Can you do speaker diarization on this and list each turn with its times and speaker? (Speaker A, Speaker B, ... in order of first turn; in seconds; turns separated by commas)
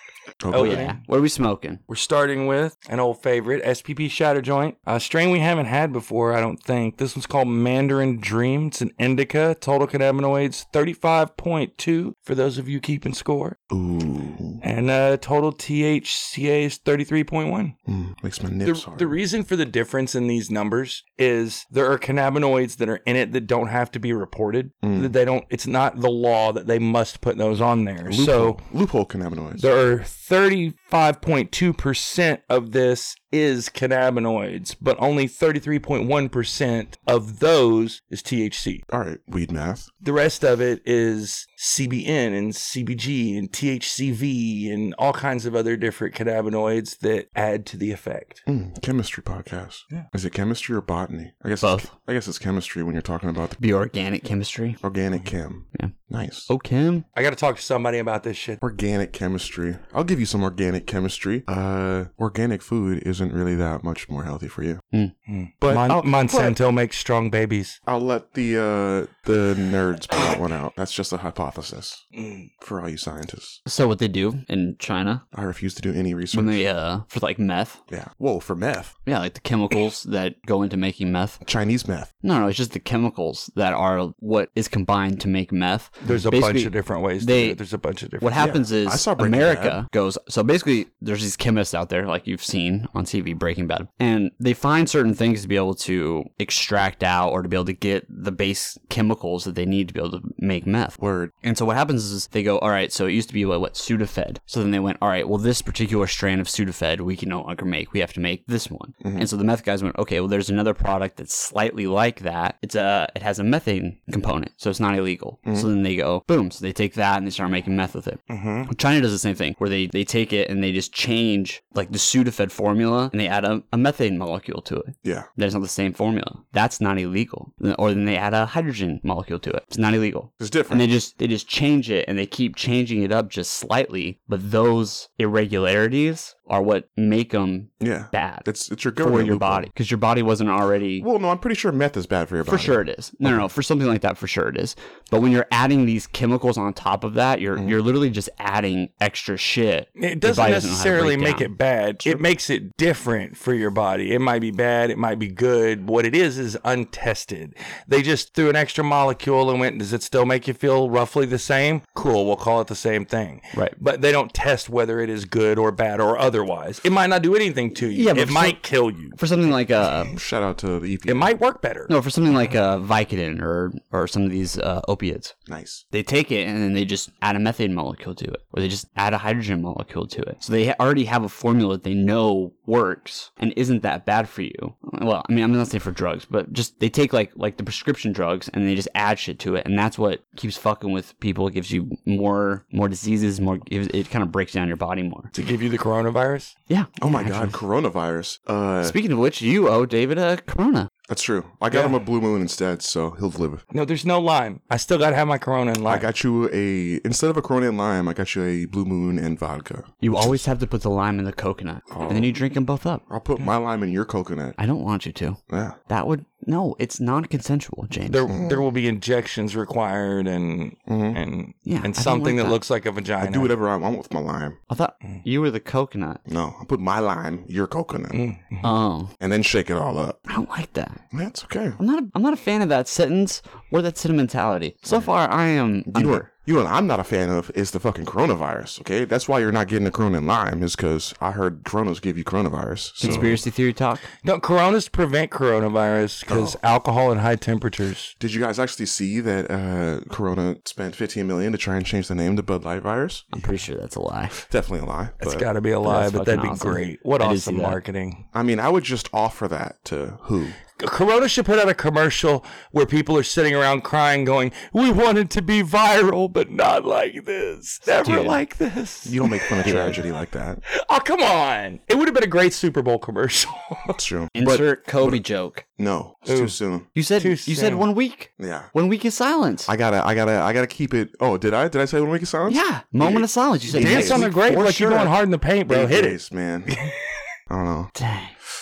Speaker A: 0.4-0.9, Speaker B: 0.5-1.0, Speaker C: 0.5-1.8, Speaker B: 1.9-13.6, Speaker A: 13.7-14.6, Speaker B: 14.6-17.8, Speaker A: 17.9-19.2, Speaker B: 18.6-28.6, Speaker A: 24.8-25.1, Speaker A: 28.1-29.7, Speaker B: 29.6-38.8, Speaker A: 38.9-39.9, Speaker B: 40.0-48.4, Speaker A: 48.5-53.6, Speaker C: 51.6-51.9, Speaker C: 53.6-54.8, Speaker A: 54.8-56.5, Speaker C: 56.5-57.0, Speaker B: 57.1-58.6, Speaker A: 58.6-64.8, Speaker B: 65.3-67.8, Speaker A: 65.6-66.6, Speaker A: 67.8-72.0, Speaker B: 72.2-72.5, Speaker A: 72.6-73.6, Speaker C: 73.7-75.2, Speaker A: 75.3-76.6, Speaker C: 76.3-77.8, Speaker A: 77.9-78.9, Speaker C: 79.0-81.4, Speaker A: 81.4-82.1, Speaker C: 82.2-87.6, Speaker B: 86.0-88.5, Speaker C: 88.2-138.5, Speaker A: 88.4-89.8, Speaker A: 101.0-101.3, Speaker A: 109.0-109.3, Speaker B: 118.3-118.7, Speaker A: 125.0-125.3, Speaker A: 130.4-130.9, Speaker A: 137.8-139.7, Speaker C: 139.0-141.1, Speaker A: 141.0-143.5, Speaker C: 142.5-151.5, Speaker B: 150.0-169.2, Speaker C: 167.9-168.6, Speaker C: 169.2-170.2, Speaker A: 170.1-171.3, Speaker B: 171.1-171.9, Speaker C: 171.9-175.3, Speaker A: 175.5-175.8, Speaker C: 175.9-195.3, Speaker B: 195.3-196.5, Speaker C: 196.7-197.6, Speaker A: 197.0-199.0, Speaker C: 198.8-200.9, Speaker A: 201.1-203.6, Speaker B: 203.7-206.1, Speaker A: 205.8-210.4, Speaker C: 210.0-213.0, Speaker A: 211.9-212.4, Speaker A: 213.1-214.6, Speaker C: 214.6-218.3, Speaker A: 215.5-215.8, Speaker B: 218.1-223.5, Speaker A: 218.3-218.6, Speaker A: 220.9-221.2, Speaker C: 221.7-222.6, Speaker A: 223.2-224.6, Speaker C: 224.7-226.2, Speaker A: 226.3-228.2, Speaker B: 228.1-228.7, Speaker C: 228.6-229.1, Speaker A: 229.2-230.2, Speaker C: 230.3-231.0, Speaker A: 231.1-231.8, Speaker C: 231.8-236.3, Speaker A: 235.9-243.4, Speaker C: 243.0-244.1, Speaker B: 243.0-243.3, Speaker B: 244.2-248.1, Speaker A: 246.3-246.6, Speaker A: 248.2-253.4, Speaker C: 253.3-254.4, Speaker A: 254.4-255.5, Speaker B: 255.2-258.2, Speaker C: 255.8-257.8, Speaker A: 258.3-260.6, Speaker B: 260.8-269.9, Speaker C: 268.0-268.4, Speaker A: 269.0-270.6, Speaker C: 269.6-270.0, Speaker B: 270.7-274.0, Speaker A: 273.9-275.2, Speaker C: 274.4-275.6, Speaker A: 275.8-276.9, Speaker B: 276.3-276.6, Speaker C: 276.9-279.7, Speaker B: 277.2-277.9, Speaker A: 278.4-278.7, Speaker A: 279.6-284.3, Speaker C: 282.5-285.1, Speaker B: 283.7-286.2, Speaker A: 285.7-286.8, Speaker A: 287.5-287.9, Speaker C: 287.9-288.4